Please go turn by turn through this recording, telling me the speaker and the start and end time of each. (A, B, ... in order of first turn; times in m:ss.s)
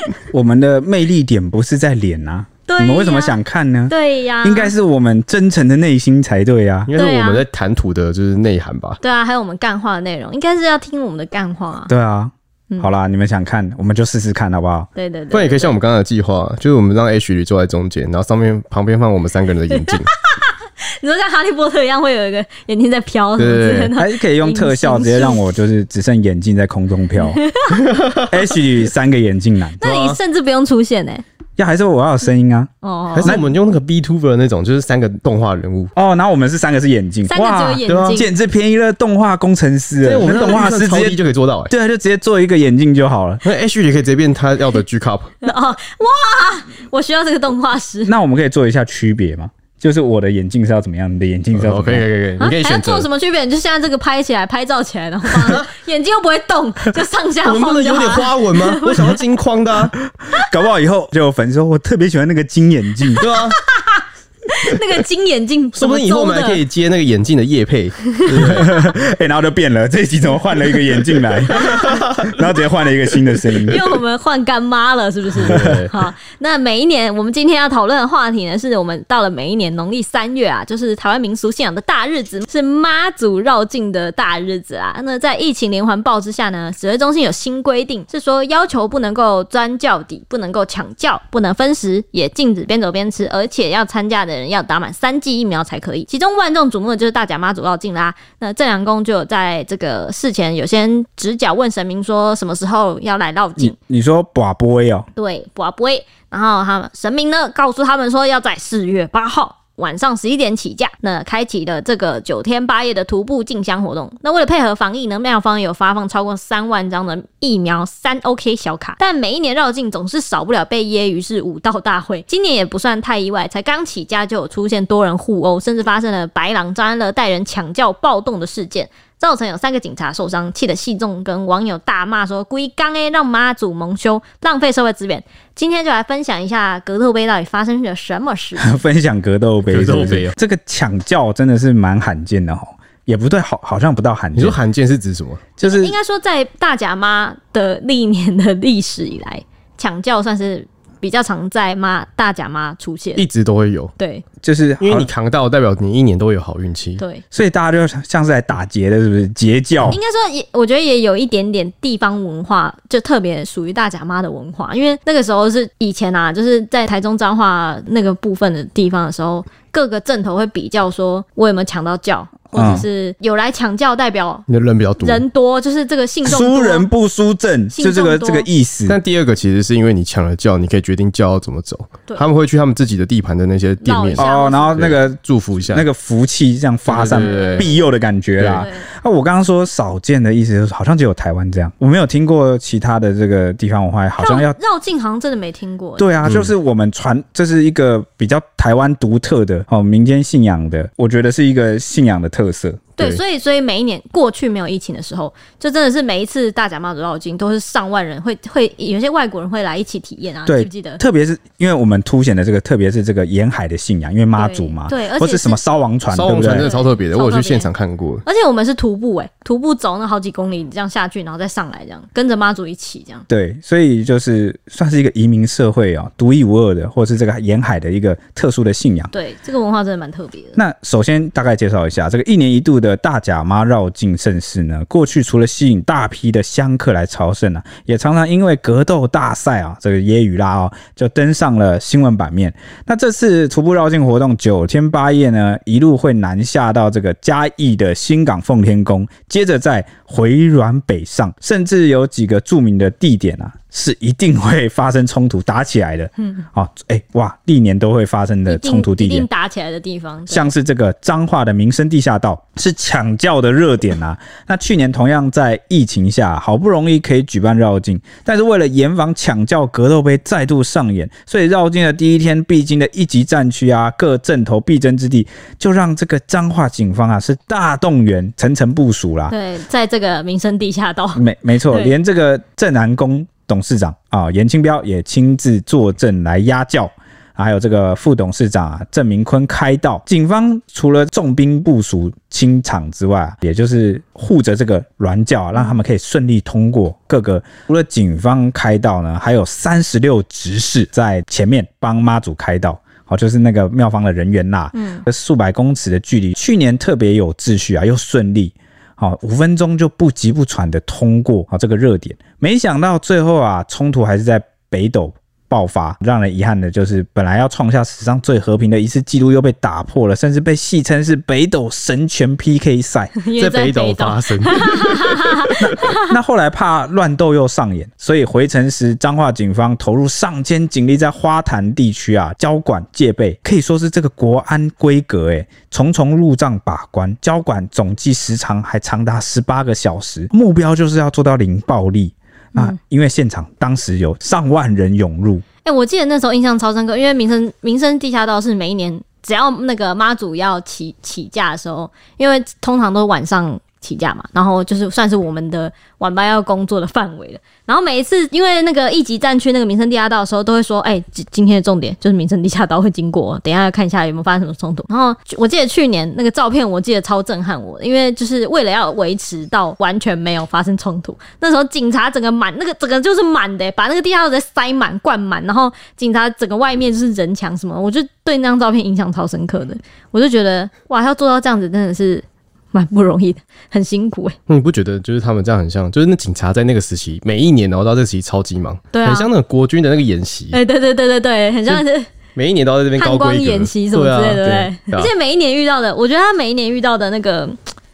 0:00.3-0:06.9 A
0:02.7-0:03.4 B
0:03.9-0:04.7 B
0:06.9-0:09.0 C
0:06.9-0:07.4 B
0:09.0-0:11.9 B
0:11.9-0:14.9 A
0:14.9-0:15.8 B
0:15.3-0:20.1 C
0:19.7-0:25.4 B
0:23.4-0:23.9 C
0:24.0-0:27.4 A
0:27.2-0:27.8 B
0:27.8-0:28.3 C
0:28.3-0:29.8 A
0:29.8-0:31.2 B
0:29.8-0:30.2 C
0:31.6-0:32.7 A
0:32.8-0:33.4 B
0:33.1-0:35.9 C
0:35.9-0:41.2 A
0:37.3-0:38.3 B
0:37.9-0:38.2 C
0:40.0-0:41.7 C
0:41.7-0:43.4 A
0:43.4-0:45.4 C
0:45.4-0:48.1 B
0:48.1-0:52.0 A
0:51.5-0:53.1 C
0:52.4-0:59.2 B
0:55.4-0:55.6 C
0:57.4-1:00.0 C
1:00.3-1:03.3 A
1:03.2-1:03.6 C
1:03.3-1:06.6 B
1:05.7-1:08.7 C
1:08.1-1:08.6 B
1:08.4-1:13.8 A
1:11.6-1:12.3 C
1:11.6-1:11.9 B
1:13.6-1:43.8 B
1:15.4-1:15.9 C
1:15.5-1:15.8 A
1:43.6-1:45.1 A
1:45.2-2:18.8 B
2:18.6-2:24.6 A
2:19.7-2:20.3 C
2:24.4-2:25.4 C
2:25.6-2:25.9 A
2:25.6-2:33.2 B
2:33.2-2:33.9 C
2:34.0-2:34.2 B
2:34.4-2:35.1 A
2:34.8-2:37.0 C
2:37.3-2:40.0 A
2:39.9-2:54.4 B
2:52.5-2:52.8 A
2:54.5-2:55.2 C
2:55.0-2:56.9 B
2:56.2-2:59.0 A
2:57.7-2:58.5 B
2:58.9-3:05.8 C
3:03.8-3:04.8 B
3:04.2-3:14.6 A
3:06.9-3:07.7 C
3:07.1-3:07.8 B
3:08.4-3:08.7 C
3:08.6-3:08.8 B
3:14.2-3:16.3 B
3:16.0-3:22.9 A
3:16.2-3:16.5 C
3:23.0-3:31.0 B
3:30.4-3:36.7 A
3:34.4-3:35.6 B
3:36.1-3:38.2 C
3:36.5-3:37.7 B
3:38.2-3:43.2 B
3:43.3-3:49.1 A
3:49.1-3:50.6 B
3:50.6-4:19.3 A
4:18.5-4:20.5 B
4:20.3-4:39.3 A
4:39.3-4:41.9 B
4:41.2-5:23.1 A
5:04.7-5:05.0 B
5:23.2-5:26.1 B
5:23.4-5:25.5 C
5:25.6-5:45.4 A
5:45.6-6:24.4 B
6:24.5-6:30.6 C
6:28.9-6:29.3 B
6:30.5-6:32.1 B
6:32.3-6:35.1 C
6:33.0-6:37.6 B